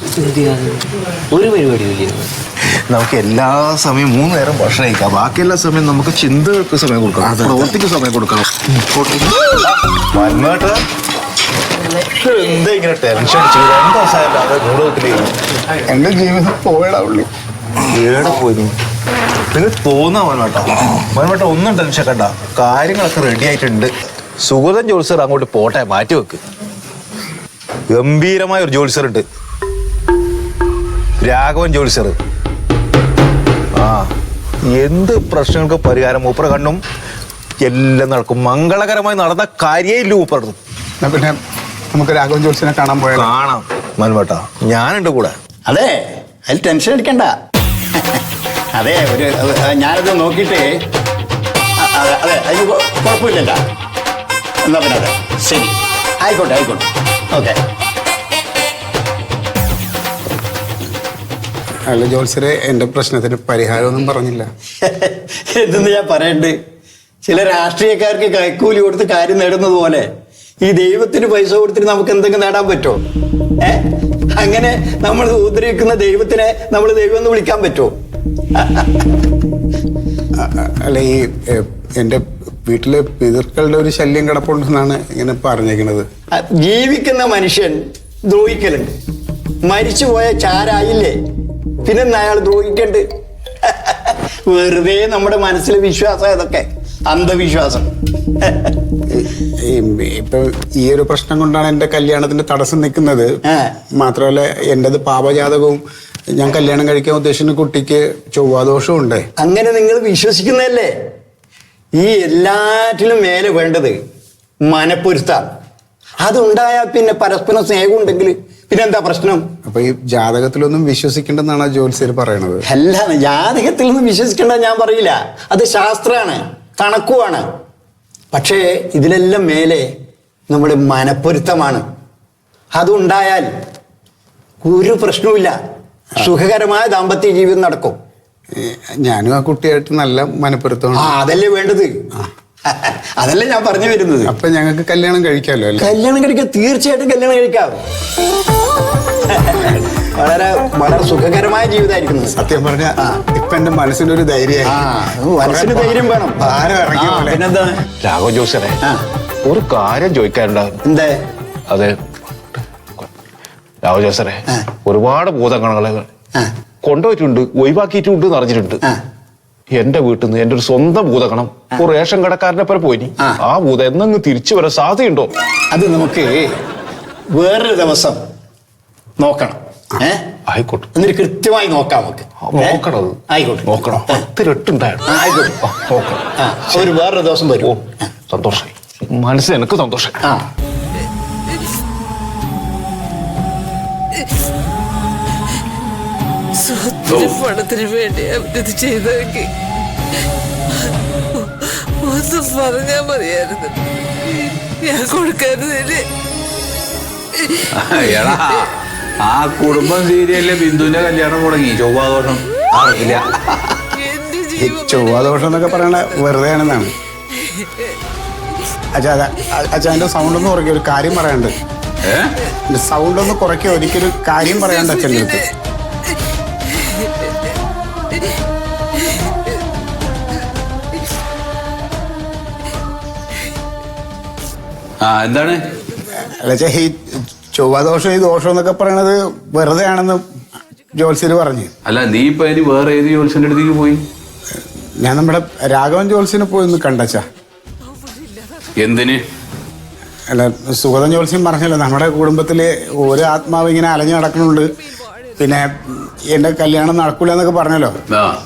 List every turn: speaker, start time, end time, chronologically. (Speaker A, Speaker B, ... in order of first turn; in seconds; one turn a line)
Speaker A: 0.1-2.3
Speaker B: 2.9-10.8
Speaker C: 7.2-7.8
Speaker B: 12.1-15.3
Speaker C: 15.9-17.3
Speaker B: 17.9-18.7
Speaker B: 19.5-23.9
Speaker B: 24.4-26.4
Speaker B: 27.9-29.2
Speaker B: 31.2-32.2
Speaker B: 33.8-34.1
Speaker B: 34.7-36.8
Speaker B: 37.6-40.6
Speaker C: 41.0-41.4
Speaker C: 41.9-43.3
Speaker B: 43.1-45.4
Speaker D: 45.7-47.3
Speaker D: 48.0-48.2
Speaker D: 48.8-50.7
Speaker D: 51.8-53.6
Speaker D: 54.6-57.6
Speaker C: 61.9-64.5
Speaker D: 64.8-66.6
Speaker D: 67.2-70.1
Speaker D: 70.6-73.0
Speaker D: 74.3-77.9
Speaker D: 78.6-79.0
Speaker C: 80.4-86.1
Speaker D: 86.3-89.0
Speaker D: 89.6-91.2
Speaker D: 91.8-93.0
Speaker D: 93.6-97.9
Speaker D: 98.4-98.7
Speaker C: 99.1-103.3
Speaker C: 104.0-105.8
Speaker C: 106.3-109.3
Speaker D: 109.4-110.9
Speaker D: 112.0-114.0
Speaker D: 114.6-115.4
Speaker D: 116.2-119.5
Speaker C: 119.7-122.7
Speaker D: 122.7-127.4
Speaker D: 128.3-129.8
Speaker D: 130.5-131.8
Speaker D: 132.7-133.5
Speaker D: 134.6-135.5
Speaker D: 136.2-138.0
Speaker C: 138.6-141.1
Speaker D: 141.0-141.9
Speaker D: 142.7-144.3
Speaker C: 144.2-145.9
Speaker D: 145.8-147.8
Speaker D: 149.3-152.4
Speaker C: 152.3-154.8
Speaker D: 154.7-157.8
Speaker C: 155.4-157.5
Speaker B: 158.0-158.8
Speaker B: 159.4-160.8
Speaker D: 160.8-161.1
Speaker B: 161.7-162.0
Speaker B: 162.5-163.1
Speaker B: 163.8-166.1
Speaker B: 166.8-168.8
Speaker B: 169.7-175.3
Speaker D: 175.7-176.5
Speaker D: 177.3-178.2
Speaker D: 179.2-180.2
Speaker B: 180.5-180.9
Speaker D: 180.9-184.2
Speaker B: 182.4-185.1
Speaker D: 185.1-185.7
Speaker B: 185.7-186.9
Speaker D: 186.4-187.9
Speaker B: 188.3-190.2
Speaker E: 197.1-197.4
Speaker F: 197.4-199.5
Speaker F: 202.0-203.8
Speaker F: 204.8-206.1
Speaker E: 207.7-213.2
Speaker C: 214.6-216.9
Speaker C: 218.9-221.5
Speaker E: 222.0-222.3
Speaker C: 222.7-225.5
Speaker E: 235.0-235.6
Speaker C: 236.3-237.0
Speaker C: 237.6-240.2
Speaker C: 241.0-241.7
Speaker E: 241.8-244.0
Speaker C: 245.0-247.2
Speaker E: 248.8-249.2
Speaker C: 250.3-254.7
Speaker C: 255.4-257.9
Speaker E: 258.1-258.4